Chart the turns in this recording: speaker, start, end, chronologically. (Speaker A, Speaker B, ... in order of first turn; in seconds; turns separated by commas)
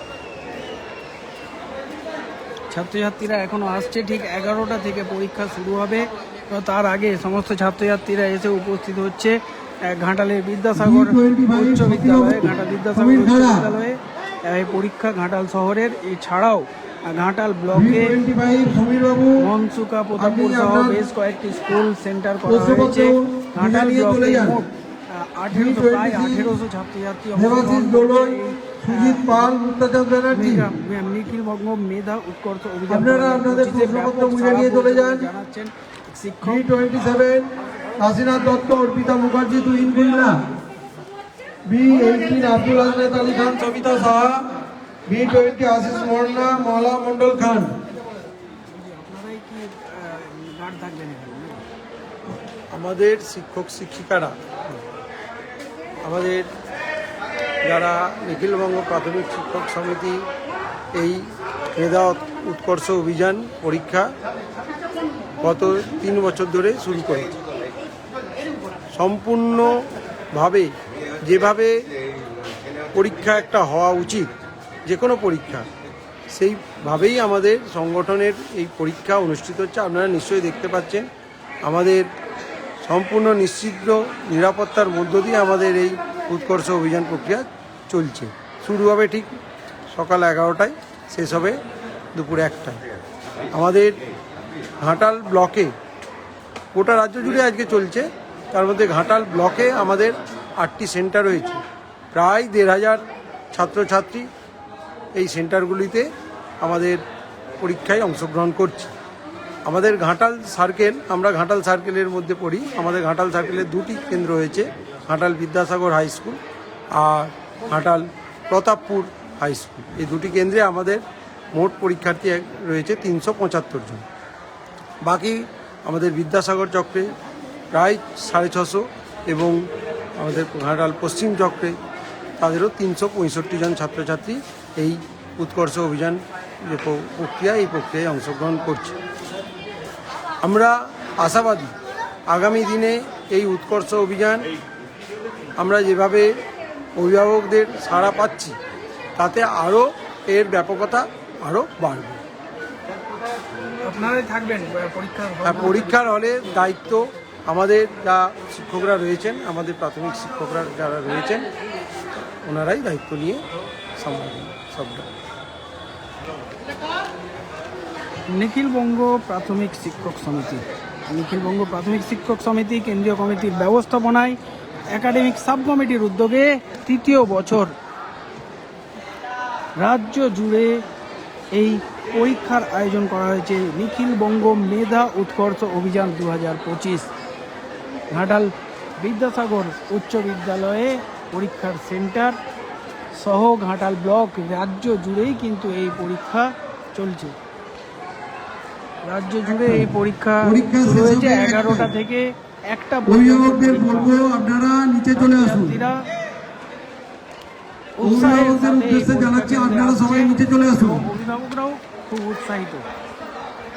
Speaker A: 2.7-18.2, Speaker B: 10.8-13.7, Speaker B: 17.7-19.5, Speaker A: 19.4-29.5, Speaker B: 20.1-21.0, Speaker B: 22.5-24.6, Speaker B: 25.5-26.5, Speaker B: 27.4-30.7, Speaker A: 30.3-36.6, Speaker B: 32.9-35.3, Speaker B: 36.4-40.4, Speaker B: 41.7-44.5, Speaker B: 45.1-47.7, Speaker A: 48.7-51.6, Speaker B: 52.3-54.8, Speaker B: 56.0-56.5, Speaker B: 57.6-60.2, Speaker B: 60.9-64.1, Speaker B: 65.4-67.3, Speaker B: 68.9-70.7, Speaker B: 71.2-71.7, Speaker B: 72.9-74.3, Speaker B: 74.9-75.7, Speaker B: 76.3-81.1, Speaker B: 81.6-82.1, Speaker B: 82.8-89.3, Speaker B: 89.9-91.6, Speaker B: 92.1-92.8, Speaker B: 93.5-94.0, Speaker B: 94.8-95.7, Speaker B: 96.7-101.6, Speaker B: 102.1-104.3, Speaker B: 105.2-106.1, Speaker B: 106.6-107.0, Speaker B: 107.6-108.9, Speaker B: 109.7-116.4, Speaker B: 117.0-121.0, Speaker B: 121.5-124.0, Speaker B: 125.0-127.1, Speaker B: 127.7-129.6, Speaker B: 130.2-131.8, Speaker B: 132.4-138.9, Speaker B: 140.4-141.7, Speaker B: 142.3-144.5, Speaker B: 145.6-146.3, Speaker B: 147.0-148.6, Speaker B: 149.2-152.2, Speaker A: 153.8-155.9, Speaker B: 155.4-161.5, Speaker B: 162.2-163.4, Speaker B: 164.0-165.1, Speaker A: 168.3-174.4, Speaker A: 174.9-177.7, Speaker A: 179.8-180.8, Speaker A: 181.5-187.1, Speaker A: 188.1-192.4, Speaker A: 193.2-197.4, Speaker A: 199.0-204.1, Speaker B: 199.4-199.9, Speaker B: 200.4-201.9, Speaker B: 203.1-205.8, Speaker A: 205.1-206.0, Speaker A: 208.0-212.9, Speaker B: 208.0-211.1